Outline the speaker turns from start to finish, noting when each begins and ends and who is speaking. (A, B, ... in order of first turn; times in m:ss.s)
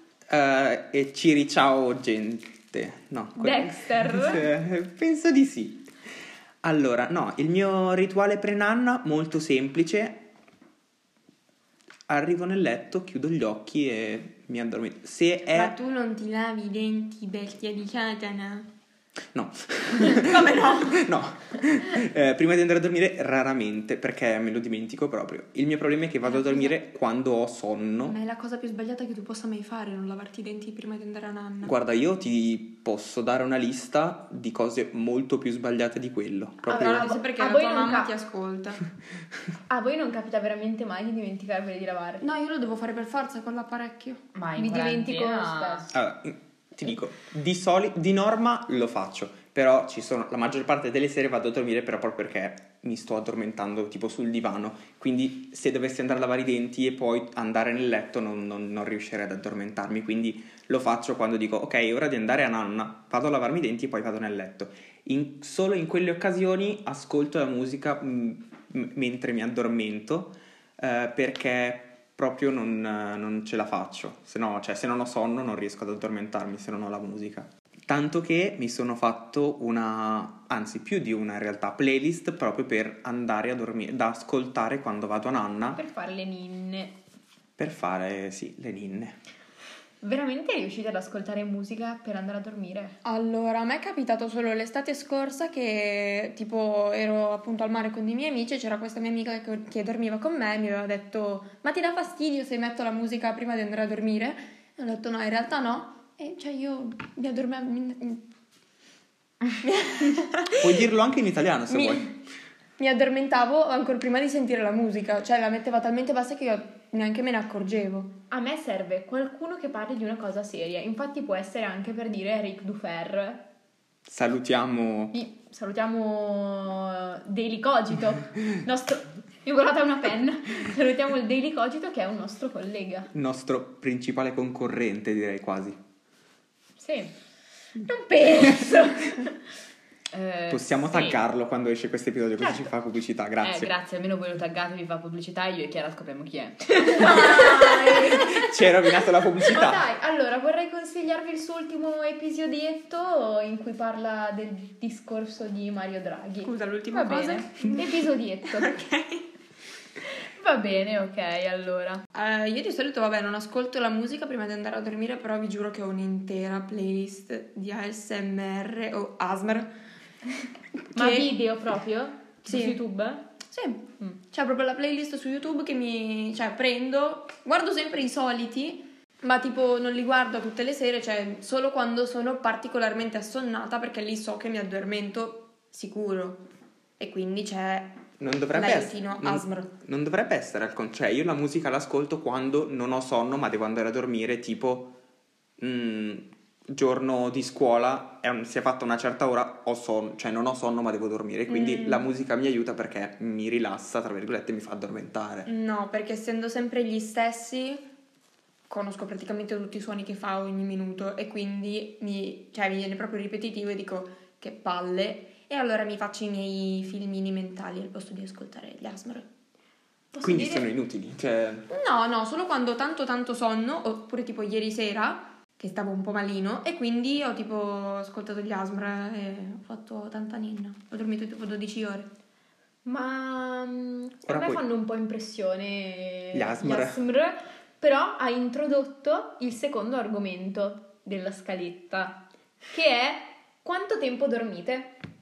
0:00.3-0:05.9 A
0:03.4-0:04.4 B
0:06.6-0:10.3 A
0:12.1-0:15.7 A
0:15.5-0:18.7 C
0:19.3-0:28.2 A
0:20.0-0:21.0 C
0:26.2-0:26.8 C
0:28.0-0:31.7 C
0:31.6-0:37.1 A
0:36.7-0:38.8 C
0:36.7-0:38.1 B
0:39.7-0:42.2 B
0:42.2-0:44.2 C
0:44.3-0:45.9 D
0:44.6-0:45.9 B
0:45.9-1:25.8 A
1:25.8-1:27.0 B
1:27.6-1:29.2 A
1:30.0-1:33.0 B
1:33.0-1:48.3 C
1:49.6-1:50.8 C
1:50.6-1:52.2 A
1:51.7-1:52.1 C
1:52.8-1:58.2 C
1:58.3-2:03.5 B
2:04.1-2:05.2 A
2:05.1-2:13.1 B
2:13.1-2:15.8 A
2:16.8-2:17.1 B
2:17.8-2:19.3 B
2:20.1-2:21.2 D
2:20.5-2:23.7 A
2:23.4-2:27.5 D
2:26.7-2:28.6 B
2:27.9-2:29.9 A
2:29.4-2:38.8 B
2:36.4-2:39.2 C
2:40.4-2:42.0 B
2:41.5-2:42.0 D
2:42.1-2:49.7 C
2:50.8-2:51.3 C
2:51.0-2:53.3 B
2:52.5-2:52.8 C
2:53.5-3:06.4 C
3:07.0-3:09.7 C
3:08.2-3:14.9 A
3:15.6-3:25.5 A
3:21.6-3:22.0 C
3:25.5-3:27.9 C
3:28.7-3:39.3 C
3:40.1-3:40.7 B
3:40.2-3:41.7 A
3:41.7-3:52.1 C
3:52.8-4:05.0 B
3:54.3-3:54.6 A
3:56.3-3:57.0 A